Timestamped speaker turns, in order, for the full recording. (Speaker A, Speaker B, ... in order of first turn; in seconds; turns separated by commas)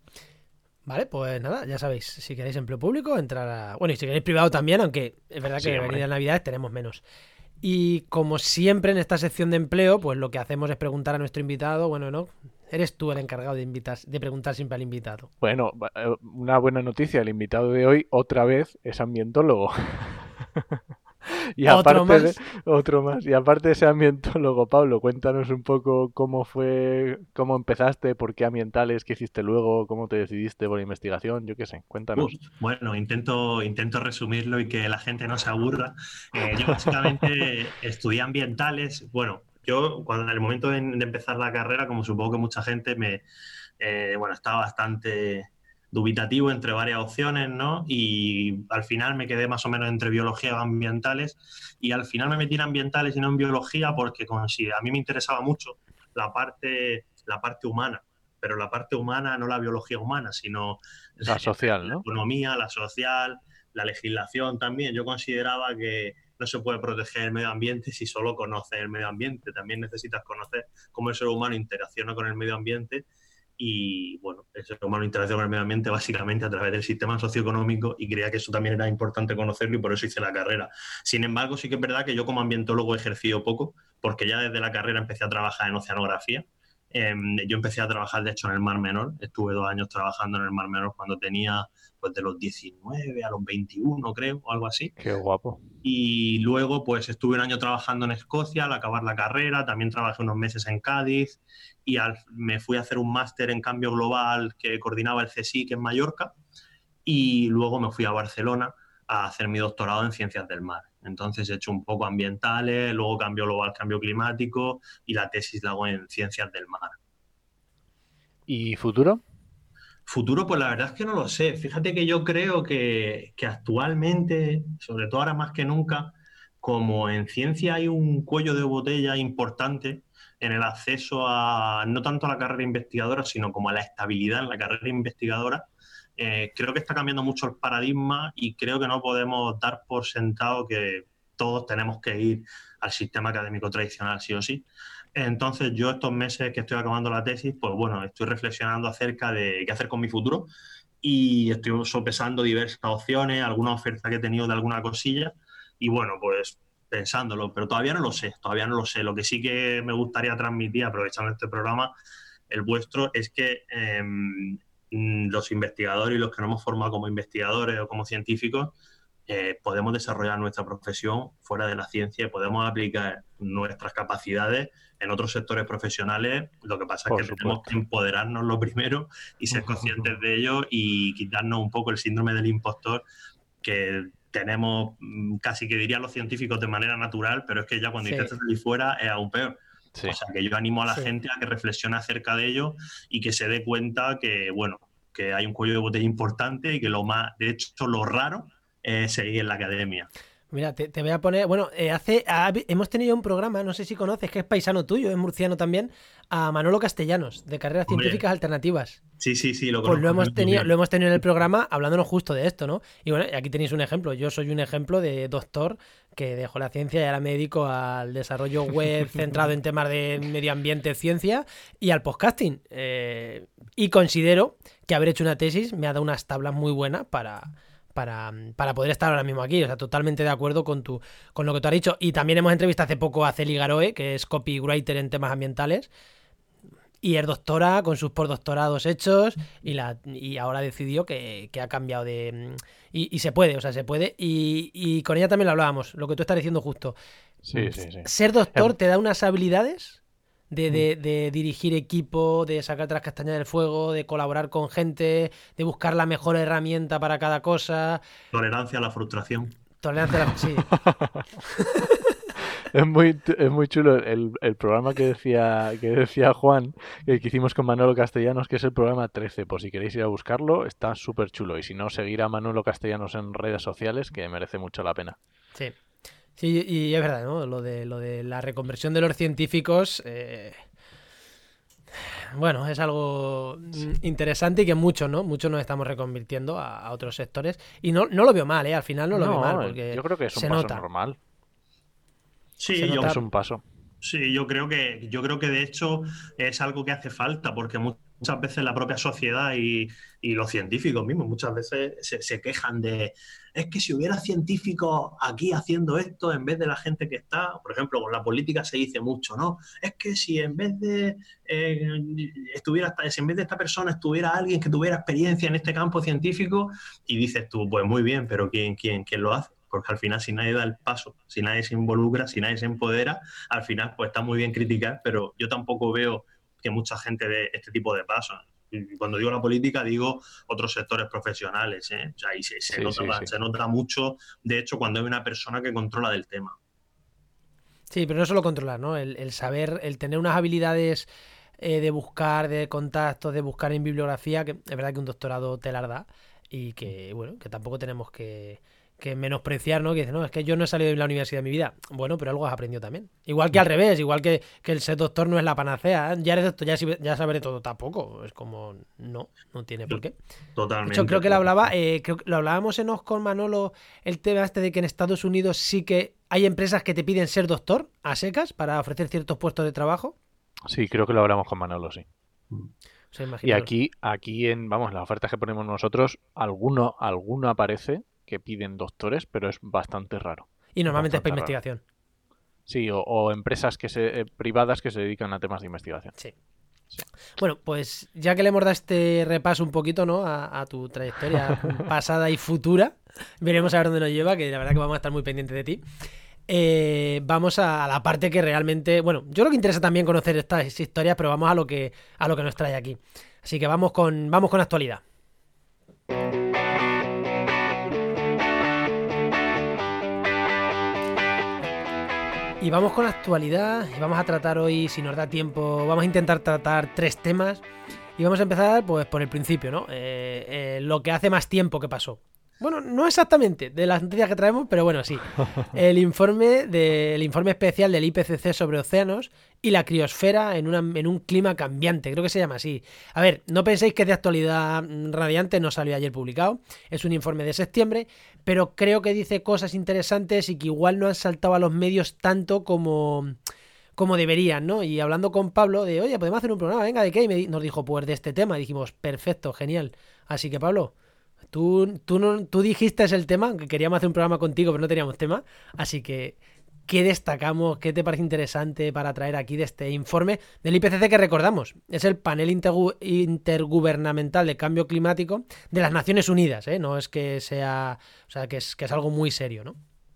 Speaker A: 0.8-7.0, Speaker B: 5.6-6.0, Speaker A: 7.6-15.3, Speaker B: 15.4-20.8, Speaker B: 21.6-32.4, Speaker A: 21.7-22.3, Speaker C: 32.1-43.2, Speaker B: 36.4-37.2, Speaker C: 43.8-73.0, Speaker B: 61.2-62.0, Speaker C: 73.6-94.9, Speaker B: 95.0-95.6, Speaker C: 95.8-106.3, Speaker C: 107.0-117.0, Speaker B: 118.5-119.2, Speaker C: 120.1-150.5, Speaker C: 151.0-161.9, Speaker C: 162.5-168.8, Speaker C: 169.3-183.0, Speaker B: 177.1-177.8, Speaker B: 179.5-180.1, Speaker C: 183.6-200.1, Speaker A: 188.0-188.3, Speaker A: 200.5-209.0, Speaker C: 207.9-208.2, Speaker C: 209.2-210.7, Speaker A: 209.8-235.9, Speaker A: 237.0-246.9, Speaker B: 247.4-248.7, Speaker A: 247.5-258.0, Speaker C: 258.3-259.5, Speaker A: 259.8-260.7, Speaker B: 260.8-261.2, Speaker B: 262.7-275.2, Speaker A: 276.4-280.6, Speaker A: 282.0-290.8, Speaker B: 289.1-291.2, Speaker C: 292.6-293.2, Speaker A: 292.8-293.2, Speaker B: 292.9-293.6, Speaker C: 294.0-336.6, Speaker B: 332.7-333.3, Speaker A: 337.9-341.1, Speaker A: 341.6-360.1, Speaker C: 360.6-361.4, Speaker A: 360.9-370.1, Speaker B: 370.7-372.1, Speaker A: 373.1-373.7, Speaker B: 373.4-381.5, Speaker A: 380.7-381.8, Speaker B: 382.7-386.1, Speaker A: 387.4-395.8, Speaker A: 396.5-405.0, Speaker A: 412.6-417.6, Speaker A: 418.2-443.4, Speaker A: 444.0-450.9, Speaker A: 451.5-469.8